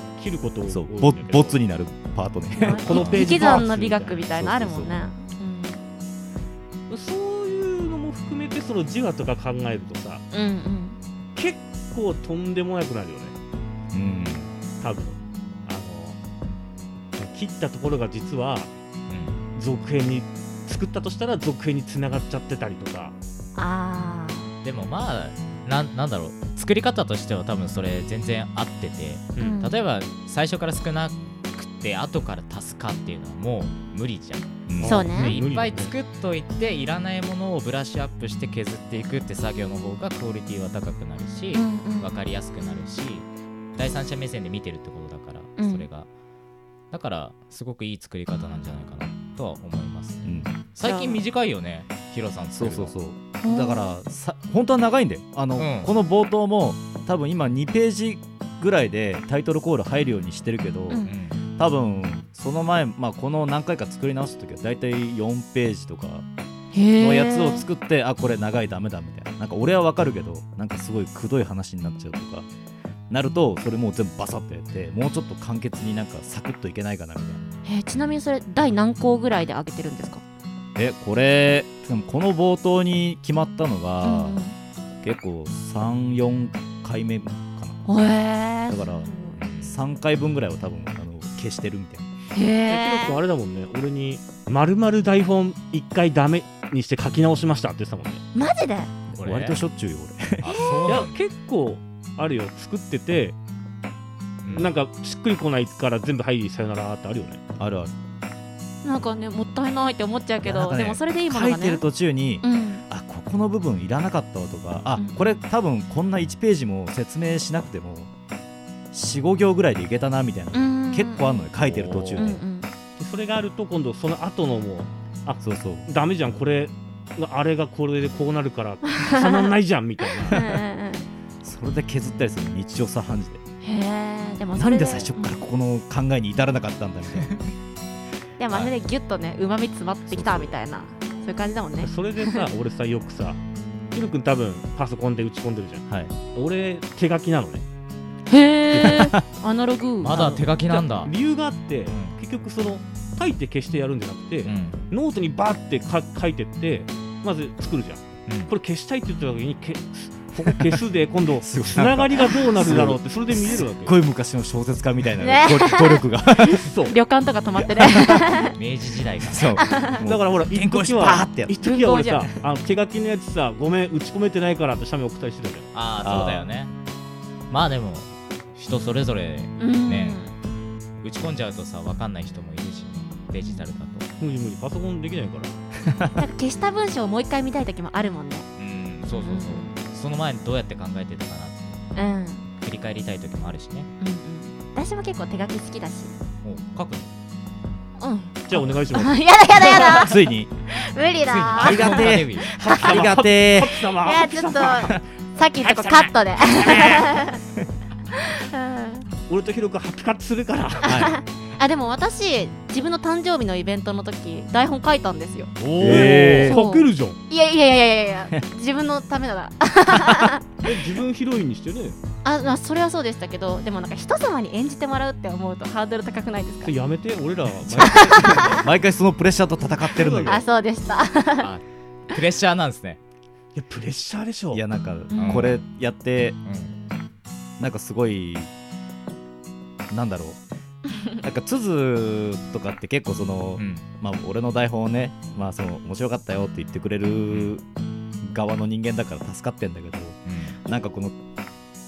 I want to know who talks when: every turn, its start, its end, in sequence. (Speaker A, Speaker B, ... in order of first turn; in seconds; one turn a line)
Speaker A: 0.2-1.6
Speaker B: 0.7-3.6
Speaker C: 2.6-5.8
Speaker A: 2.8-4.2
Speaker B: 4.3-5.0
Speaker A: 6.9-10.2
Speaker C: 10.3-11.0
Speaker A: 11.3-13.3
Speaker B: 13.9-14.5
Speaker A: 14.8-16.2
Speaker A: 17.1-18.7
Speaker D: 19.1-19.4
Speaker A: 19.5-23.1
Speaker C: 23.6-24.5
Speaker D: 24.6-46.1
Speaker C: 29.4-29.7
Speaker B: 34.7-35.1
Speaker A: 34.8-35.9
Speaker C: 34.8-35.3
Speaker C: 41.5-42.1
Speaker C: 45.6-45.8
Speaker D: 46.9-52.9
Speaker B: 50.2-50.5
Speaker C: 50.8-51.2
Speaker B: 52.5-66.2
Speaker C: 53.4-53.9
Speaker D: 55.6-55.9
Speaker D: 61.0-61.4
Speaker C: 66.7-67.7
Speaker B: 67.0-72.5
Speaker B: 73.1-77.5
Speaker C: 77.6-80.2
Speaker B: 80.8-84.4
Speaker C: 84.0-84.5
Speaker B: 85.0-87.8
Speaker C: 87.8-89.3
Speaker B: 88.7-92.1
Speaker D: 89.4-89.7
Speaker C: 92.3-93.2
Speaker A: 92.7-98.2
Speaker C: 98.3-98.9
Speaker B: 99.1-100.4
Speaker D: 99.2-99.6
Speaker D: 100.4-101.2
Speaker C: 100.4-100.9
Speaker A: 100.9-103.4
Speaker D: 104.4-104.7
Speaker A: 104.5-107.4
Speaker B: 107.6-107.9
Speaker C: 108.8-111.8
Speaker B: 110.4-118.1
Speaker C: 112.4-112.8
Speaker C: 115.0-115.4
Speaker B: 118.9-122.4
Speaker C: 120.5-121.5
Speaker D: 121.6-122.3
Speaker C: 122.2-122.7
Speaker A: 123.0-130.4
Speaker B: 125.4-125.8
Speaker C: 129.2-129.5
Speaker C: 130.3-131.1
Speaker B: 131.4-133.4
Speaker C: 133.6-135.3
Speaker B: 134.6-137.4
Speaker C: 138.4-142.4
Speaker B: 140.1-140.5
Speaker A: 141.8-143.4
Speaker A: 143.9-147.6
Speaker B: 145.9-146.1
Speaker C: 148.3-150.2
Speaker A: 148.7-149.0
Speaker B: 148.8-149.2
Speaker D: 150.0-151.1
Speaker A: 150.1-164.0
Speaker D: 151.9-152.2
Speaker D: 154.4-154.8
Speaker D: 158.3-158.5
Speaker B: 161.4-166.7
Speaker C: 165.2-168.5
Speaker A: 166.5-166.9
Speaker D: 168.5-169.5
Speaker B: 169.2-171.6
Speaker C: 169.6-170.0
Speaker A: 170.0-175.7
Speaker C: 171.6-172.2
Speaker D: 175.7-176.7
Speaker B: 176.0-176.5
Speaker D: 177.5-180.2
Speaker C: 179.6-180.3
Speaker D: 181.0-184.1
Speaker A: 184.2-185.5
Speaker C: 186.2-188.5
Speaker D: 188.6-191.8
Speaker C: 189.1-189.8
Speaker C: 191.9-192.5
Speaker D: 192.6-193.9
Speaker C: 194.0-196.1
Speaker D: 196.4-197.1
Speaker C: 198.0-200.1
Speaker A: 198.5-199.9
Speaker B: 200.0-200.5
Speaker C: 200.7-202.9
Speaker D: 201.3-202.5
Speaker B: 201.6-203.8
Speaker A: 202.5-205.0
Speaker C: 204.0-207.4
Speaker A: 205.8-207.0
Speaker C: 208.1-209.1
Speaker A: 209.3-210.9
Speaker C: 210.8-220.7
Speaker B: 210.8-211.1
Speaker A: 215.6-217.2
Speaker B: 215.8-216.6
Speaker A: 220.6-222.0
Speaker C: 222.2-226.7
Speaker A: 226.6-228.6
Speaker B: 227.7-230.4
Speaker C: 227.8-228.5
Speaker A: 229.9-230.4
Speaker C: 230.2-231.5
Speaker D: 231.4-233.0
Speaker A: 233.5-234.6
Speaker B: 234.5-236.4
Speaker C: 235.1-235.5
Speaker D: 235.2-235.6
Speaker D: 236.4-236.7
Speaker B: 237.6-238.5
Speaker B: 239.9-240.4
Speaker B: 241.2-247.6
Speaker D: 243.6-243.8
Speaker B: 248.2-251.1
Speaker D: 250.2-250.6